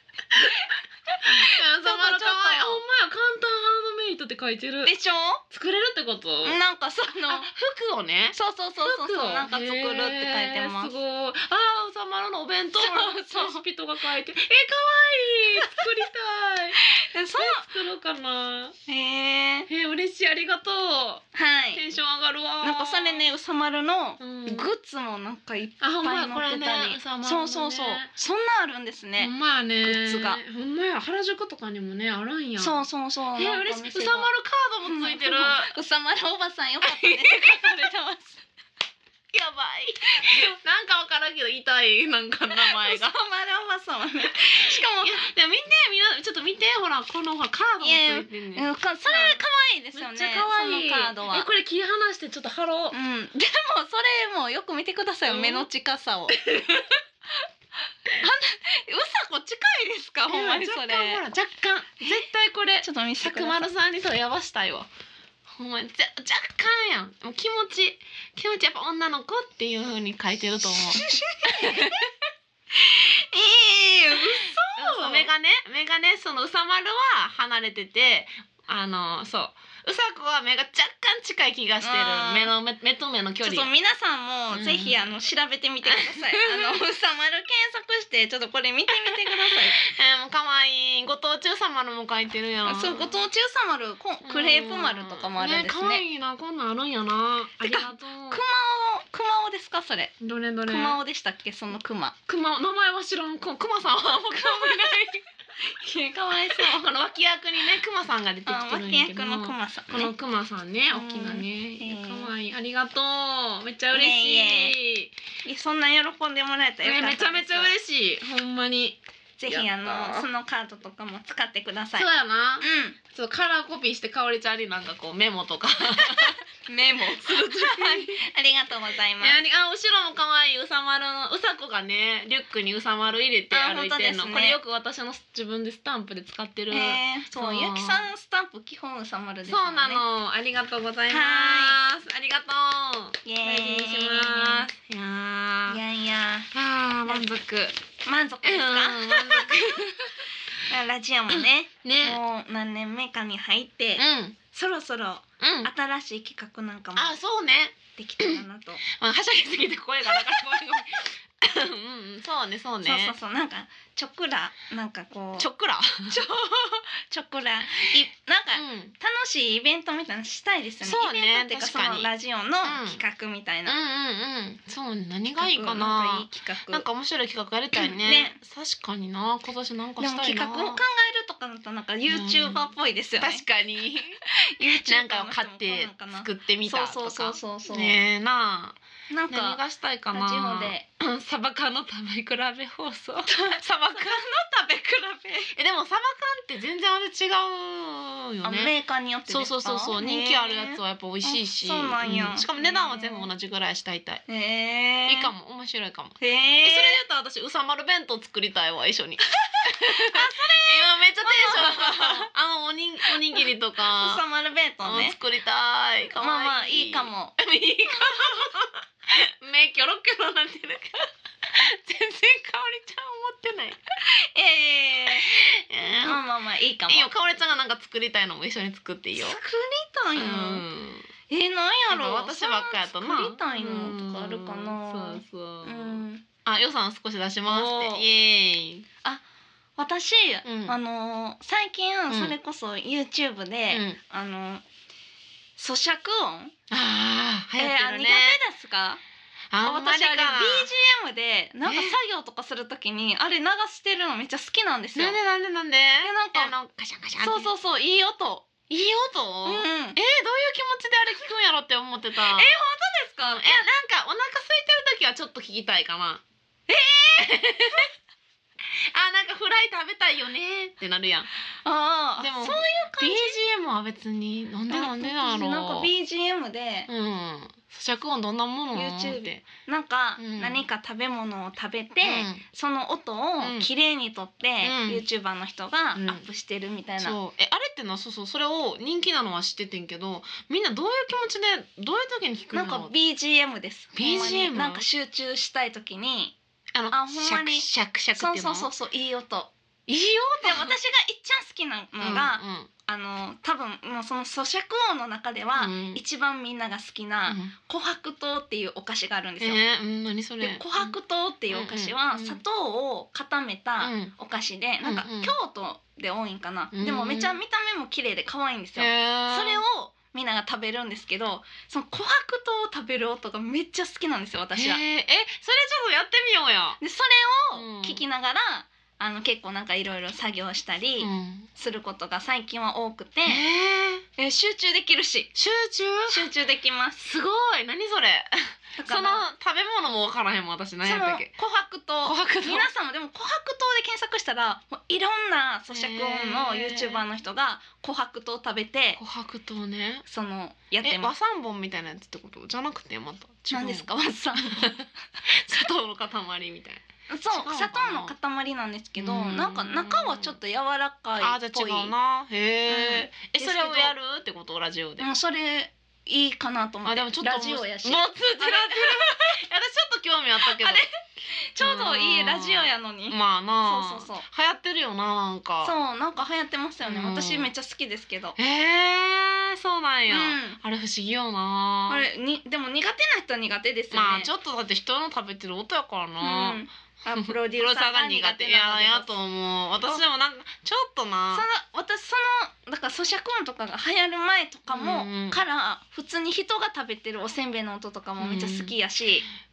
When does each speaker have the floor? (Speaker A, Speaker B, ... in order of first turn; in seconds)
Speaker A: 0.4-2.8, 4.8-5.4, 6.4-7.5, 8.3-10.9, 12.8-13.6, 16.8-17.7, 18.9-19.7, 21.3-21.8, 22.6-30.4, 32.6-34.3, 34.9-38.5, 40.1-40.5, 42.6-45.2, 47.8-51.5, 52.9-56.4, 58.1-61.2, 62.8-63.7, 70.8-72.1, 72.8-75.3, 81.8-82.5, 83.4-89.8, 92.7-96.0, 97.6-100.2, 100.7-102.2, 104.3-105.1, 105.6-106.9, 108.5-110.1, 110.9-112.3, 113.9-114.8, 115.5-117.7, 119.4-122.1, 122.6-123.0, 126.0-129.4, 133.5-134.6, 136.7-140.0, 141.1-141.8, 143.2-144.7, 145.7-146.5, 147.1-147.3, 148.1-157.2, 157.9-158.8, 162.8-165.5, 166.1-173.8, 175.3-176.9, 177.7-178.4, 180.0-183.4, 184.2-188.0, 189.1-189.6, 190.1-190.8, 193.3-195.6, 198.4-203.3, 204.3-205.3, 206.2-207.0, 209.6-212.3, 213.1-215.2, 216.2-217.4, 224.1-225.3, 226.0-227.1, 229.2-230.7, 231.3-236.3, 237.5-238.1, 239.8-244.6, 245.6-246.6, 247.6-249.0, 249.6-255.2, 256.0-256.5, 257.2-258.5, 259.4-260.0, 262.2-263.7, 266.7-267.9, 271.6-273.4, 274.7-276.9, 278.7-287.2, 292.5-296.4, 296.9-299.5, 300.4-309.6, 310.4-324.8, 326.8-333.4, 334.2-335.3, 336.1-337.0, 338.8-339.2, 340.8-349.0, 350.1-351.1, 353.5-354.9, 357.1-361.9, 362.7-363.9, 365.0-369.4, 370.4-374.3, 375.6-378.4, 380.1-380.6, 381.9-384.3, 386.2-389.1, 391.3-399.3
Speaker B: 1.2-4.9, 5.5-6.6, 7.2-16.8, 17.4-18.8, 19.7-23.3, 24.2-24.7, 25.8-28.1, 29.2-32.8, 33.4-35.7, 36.8-37.8, 39.3-43.2, 44.7-49.4, 50.0-53.0, 55.3-55.7, 56.3-57.0, 60.3-64.9, 65.5-72.1, 74.2-83.7, 84.5-85.0, 85.8-86.8, 89.0-93.2, 94.2-98.4, 100.2-101.0, 102.3-105.2, 106.5-115.1, 116.8-120.3, 122.0-126.4, 127.1-128.2, 129.2-138.1, 139.5-145.8, 146.5-147.8, 148.4-150.3, 151.3-152.2, 154.0-154.4, 155.4-155.7, 157.0-163.2, 165.4-166.2, 168.5-168.9, 170.8-172.1, 172.6-173.0, 173.7-180.8, 182.1-182.7, 183.2-194.2, 195.5-198.7, 199.3-204.2, 205.1-214.2, 214.8-223.9, 225.3-226.2, 226.9-229.4, 230.2-231.1, 231.9-238.9, 240.4-240.8, 242.1-242.3, 243.7-244.0, 246.7-248.4, 249.5-250.7, 251.7-251.9, 255.0-257.5, 258.7-262.6, 263.3-266.2, 267.2-267.9, 268.7-271.3, 272.2-275.9, 276.9-279.5, 280.2-280.6, 282.0-282.4, 283.4-283.7, 284.6-285.0, 285.9-286.2, 287.0-292.9, 293.9-294.9, 296.7-298.7, 299.9-300.7, 302.0-302.7, 305.6-306.0, 307.3-307.5, 309.4-310.9, 311.5-312.4, 313.8-314.1, 314.8-315.3, 316.7-317.4, 318.8-319.6, 324.6-326.8, 327.5-328.0, 331.0-331.5, 333.3-334.1, 335.4-336.3, 337.0-341.3, 342.0-342.7, 345.7-347.1, 349.0-350.1, 350.8-353.9, 354.4-358.1, 359.0-360.4, 361.2-365.1, 366.9-370.9, 371.6-375.8, 376.8-377.5, 378.4-382.1, 383.9-386.6, 387.1-391.4, 394.7-395.4, 398.2-398.7